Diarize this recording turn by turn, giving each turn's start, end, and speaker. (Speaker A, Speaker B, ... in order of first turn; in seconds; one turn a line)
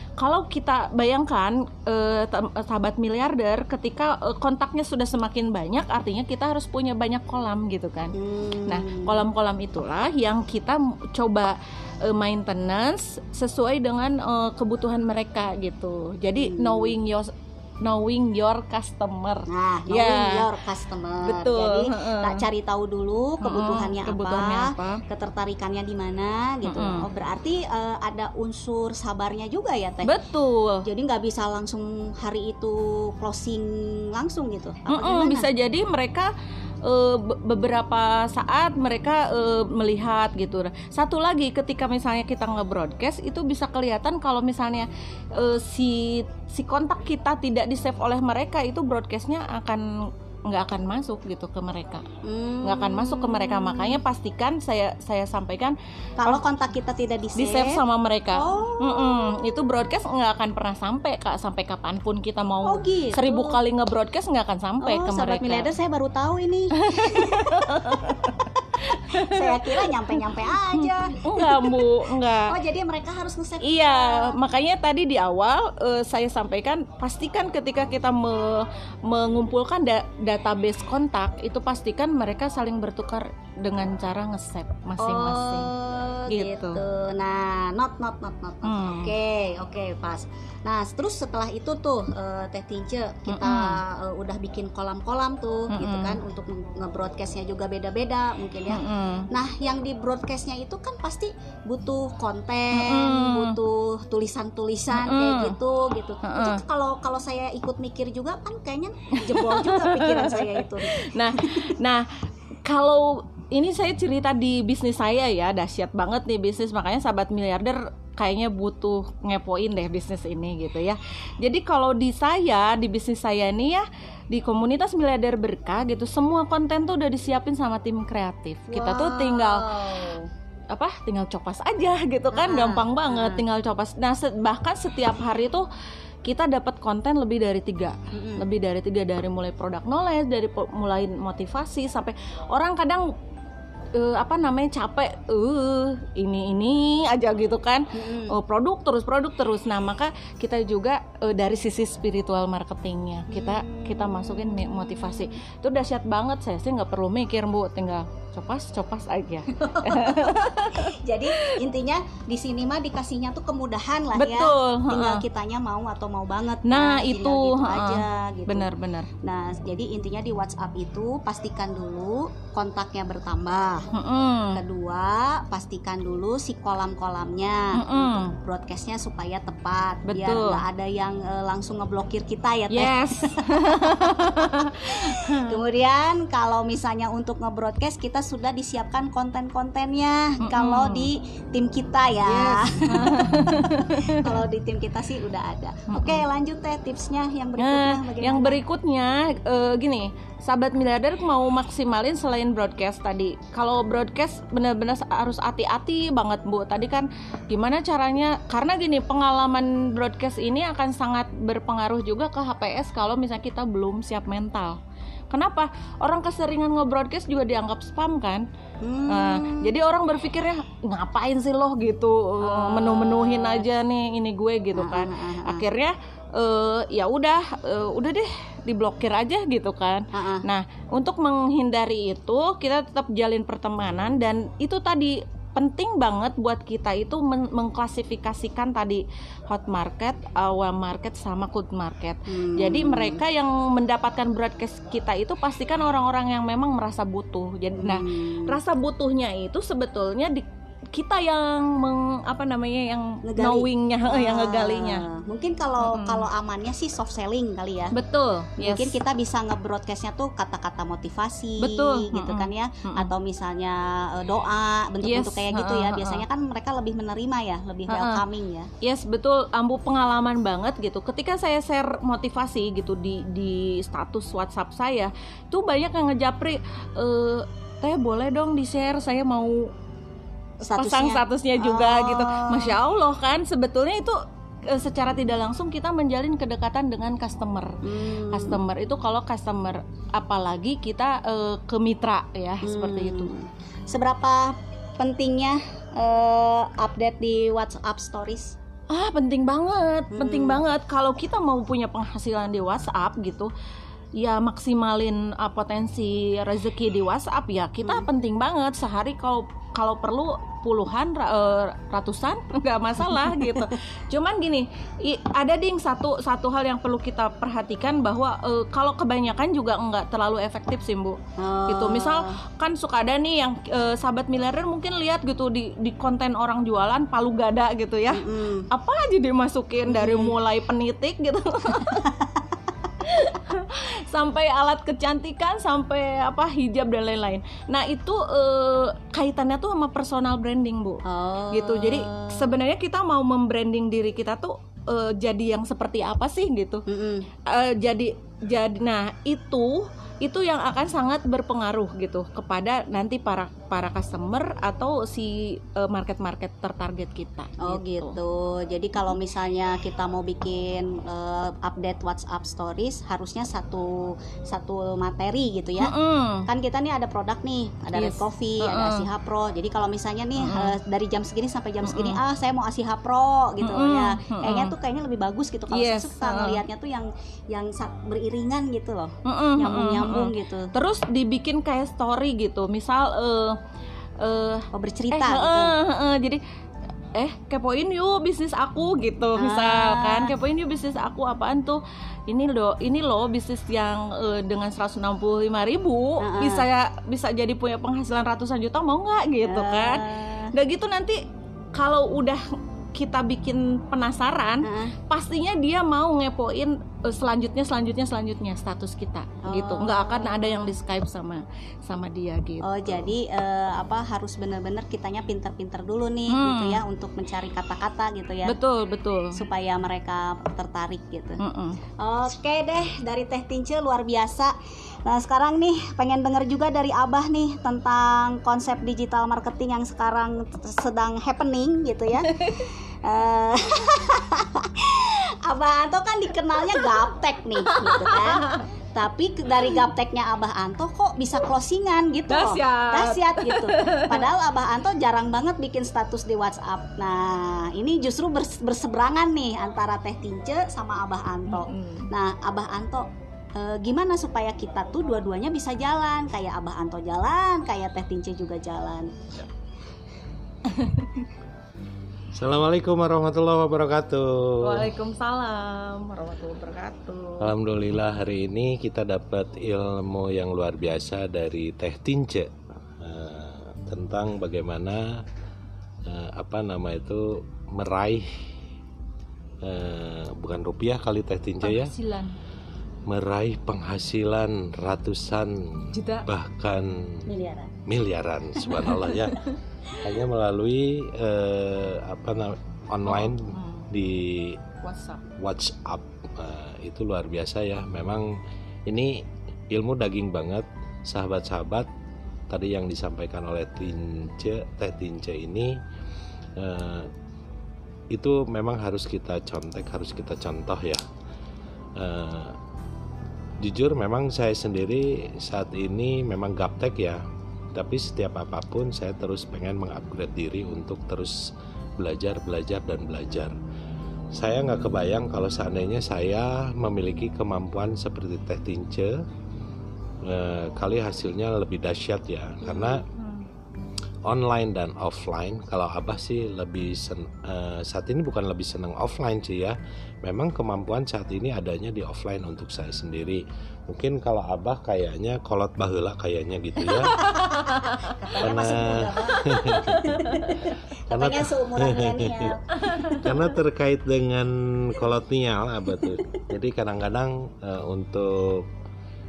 Speaker A: 0.2-8.2
Speaker B: 8.2-9.2
Speaker A: 8.7-17.3
Speaker B: 16.4-17.0
Speaker A: 17.8-20.5
Speaker B: 19.5-30.1
Speaker A: 21.2-22.5
Speaker A: 23.4-25.0
Speaker A: 26.6-27.1
Speaker A: 30.1-30.9
Speaker B: 30.8-35.5
Speaker A: 34.9-36.3
Speaker A: 36.8-49.9
Speaker A: 50.5-52.1
Speaker B: 52.2-54.0
Speaker A: 52.6-56.4
Speaker B: 56.2-57.8
Speaker A: 57.4-65.7
Speaker B: 58.3-59.3
Speaker B: 62.6-63.6
Speaker B: 64.8-74.3
Speaker A: 66.8-72.5
Speaker A: 73.6-85.7
Speaker B: 85.0-111.7
Speaker A: 86.3-86.8
Speaker A: 88.6-89.1
Speaker A: 93.3-93.8
Speaker A: 95.7-96.2
Speaker A: 98.7-99.3
Speaker A: 102.7-103.6
Speaker A: 104.9-105.6
Speaker A: 106.2-106.6
Speaker A: 109.2-129.7
Speaker B: 128.7-130.3
Speaker A: 130.7-135.7
Speaker B: 132.3-133.4
Speaker A: 136.2-143.1
Speaker B: 138.1-138.4
Speaker A: 143.9-161.6
Speaker B: 147.9-148.4
Speaker B: 153.3-155.4
Speaker B: 159.5-168.7
Speaker A: 164.2-165.2
Speaker A: 166.7-169.1
Speaker B: 169.2-173.9
Speaker A: 173.9-174.6
Speaker B: 174.5-198.6
Speaker A: 177.7-178.3
Speaker A: 180.1-180.6
Speaker A: 182.7-185.6
Speaker A: 190.4-191.1
Speaker A: 192.3-194.4
Speaker A: 195.9-196.2
Speaker A: 197.6-214.8
Speaker A: 215.3-218.5
Speaker B: 218.8-219.7
Speaker A: 219.1-255.1
Speaker B: 222.4-223.7
Speaker B: 224.8-225.7
Speaker B: 230.1-230.4
Speaker B: 242.3-243.2
Speaker B: 247.8-248.6
Speaker B: 253.2-257.9
Speaker A: 255.8-256.3
Speaker A: 257.9-259.0
Speaker B: 258.6-268.7
Speaker A: 261.6-263.1
Speaker A: 265.0-266.2
Speaker A: 267.9-268.2
Speaker A: 268.8-279.7
Speaker B: 280.6-282.8
Speaker A: 280.6-293.3
Speaker B: 287.8-288.6
Speaker B: 292.6-298.6
Speaker A: 298.9-303.5
Speaker B: 300.1-300.6
Speaker A: 304.2-332.1
Speaker B: 313.2-313.7
Speaker B: 321.4-322.4
Speaker B: 328.1-328.6
Speaker B: 329.9-330.4
Speaker B: 331.8-332.4
Speaker A: 333.0-346.9
Speaker B: 341.1-342.5
Speaker B: 346.9-347.3
Speaker A: 347.4-358.2
Speaker B: 357.6-380.7
Speaker A: 365.8-366.5
Speaker A: 367.9-369.1
Speaker A: 370.4-370.8
Speaker A: 371.8-372.2
Speaker A: 373.6-374.8
Speaker A: 375.7-376.6
Speaker A: 379.2-383.6
Speaker A: 384.2-386.4
Speaker B: 384.7-385.8
Speaker A: 387.1-401.2
Speaker B: 389.4-390.3
Speaker B: 396.2-396.7
Speaker B: 399.4-400.5
Speaker A: 401.8-402.4
Speaker A: 402.9-412.7
Speaker B: 404.6-404.9
Speaker B: 409.5-410.7
Speaker B: 412.6-418.6
Speaker A: 416.3-416.8
Speaker A: 418.5-419.4
Speaker B: 419.3-421.4
Speaker A: 421.4-421.8
Speaker B: 422.0-424.5
Speaker B: 425.1-459.1
Speaker A: 432.3-432.7
Speaker A: 437.7-438.6
Speaker A: 442.3-444.3
Speaker A: 451.5-452.1
Speaker A: 460.7-461.2
Speaker C: 462.3-464.9
Speaker A: 464.6-467.5
Speaker C: 467.4-475.2
Speaker C: 476.1-478.5
Speaker C: 479.6-481.9
Speaker A: 481.6-482.4
Speaker C: 483.1-487.3
Speaker A: 485.9-486.3
Speaker B: 487.3-487.7
Speaker C: 487.9-494.6
Speaker A: 493.1-493.9
Speaker A: 494.8-495.2
Speaker C: 495.4-498.3
Speaker C: 498.9-501.9
Speaker C: 502.5-505.8
Speaker C: 506.6-507.1
Speaker C: 508.1-511.0
Speaker C: 512.0-512.6
Speaker C: 513.6-517.2
Speaker C: 517.8-521.4
Speaker C: 522.0-523.5
Speaker C: 524.3-529.2
Speaker C: 530.2-533.0
Speaker B: 532.6-533.0
Speaker A: 533.1-533.4
Speaker C: 534.3-547.3
Speaker A: 547.1-548.5
Speaker B: 547.2-553.4
Speaker C: 548.4-550.4
Speaker C: 551.1-558.7
Speaker A: 552.8-553.2